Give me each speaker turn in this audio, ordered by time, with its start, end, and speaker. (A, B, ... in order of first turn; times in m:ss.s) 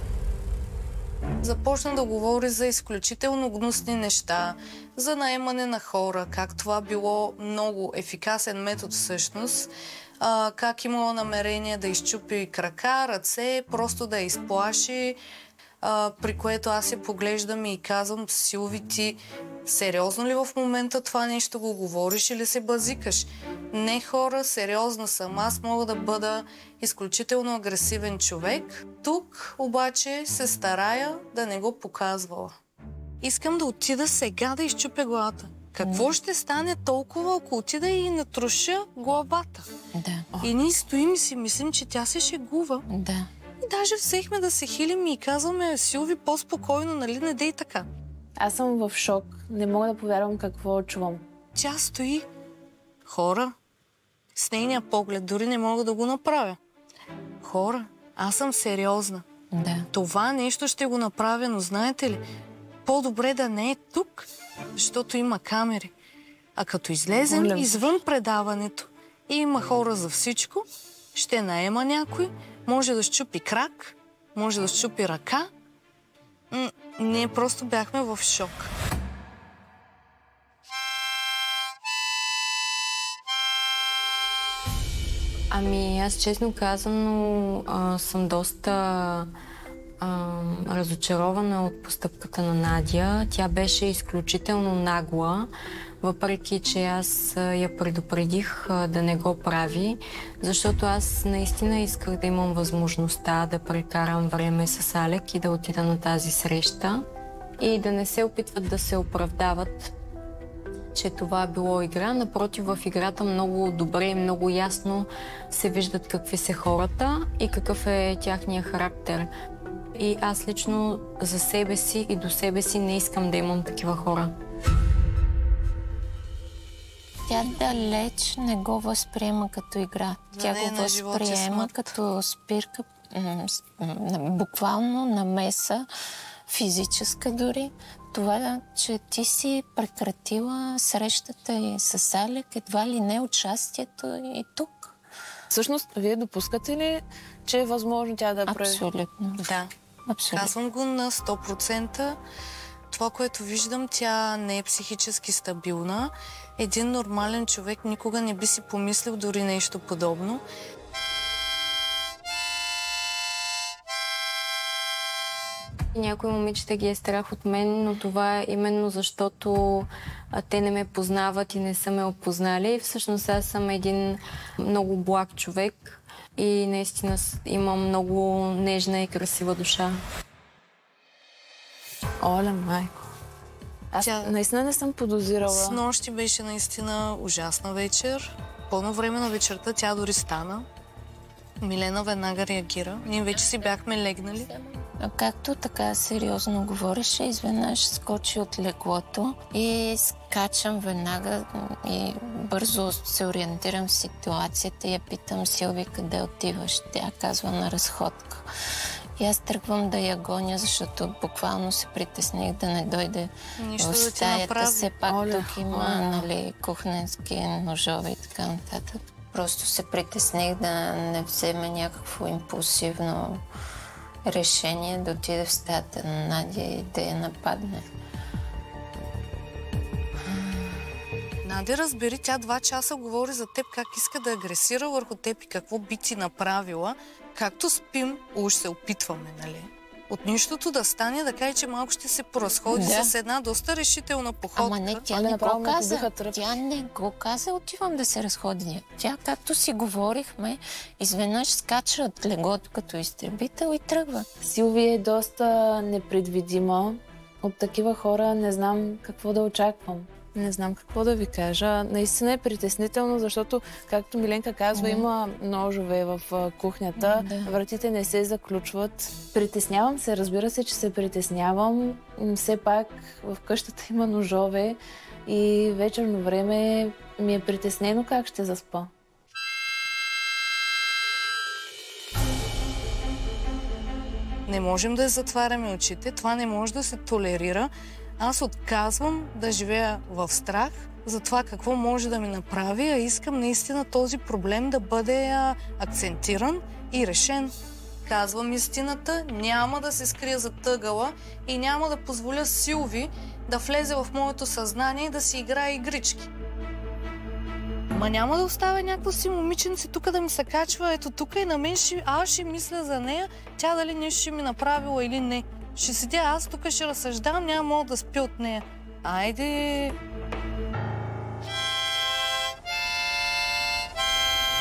0:01.4-0:15.2 A
0:15.8-0:32.5 A
0:33.2-0:39.7 A
0:35.8-0:36.1 B
0:39.9-0:40.3 B
0:40.4-0:42.8 A
0:42.9-0:43.3 B
0:43.6-0:47.9 A
0:48.4-0:51.2 C
0:51.6-0:52.2 A
0:53.1-0:53.5 A
0:54.4-0:56.6 A
0:57.4-0:59.2 A
0:59.5-0:59.9 B
0:59.9-1:02.2 A
1:02.8-1:05.9 A
1:06.6-1:15.5 A
1:07.2-1:07.8 C
1:16.5-1:18.7 A
1:25.5-1:29.3 D
1:30.0-1:35.5 D
1:36.0-1:47.0 D
1:47.6-1:50.0 D
1:50.9-1:59.3 D
2:00.0-2:04.3 D
2:07.3-2:15.9 B
2:10.3-2:11.8 A
2:16.5-2:25.0 B
2:25.5-2:28.8 C
2:28.5-2:29.5 B
2:29.4-2:29.7 A
2:30.1-2:30.5 B
2:30.3-2:32.2 A
2:32.9-2:40.4 A
2:45.9-3:00.0 D
3:02.2-3:03.0 C
3:03.9-3:05.8 C
3:04.0-3:04.4 A
3:05.4-3:10.7 A
3:11.6-3:14.5 A
3:13.3-3:13.8 B
3:14.5-3:28.5 B
3:29.2-3:43.4 B
3:33.6-3:35.0 A
3:35.1-3:36.3 C
3:44.2-3:47.9 B
3:50.3-3:50.8 B
3:51.4-4:05.0 A
4:02.7-4:03.1 B
4:04.6-4:14.3 B
4:05.1-4:06.6 C
4:14.4-4:38.9 C
4:24.7-4:25.1 B
4:27.0-4:27.6 B
4:44.5-5:06.3 A
5:07.9-5:20.0 A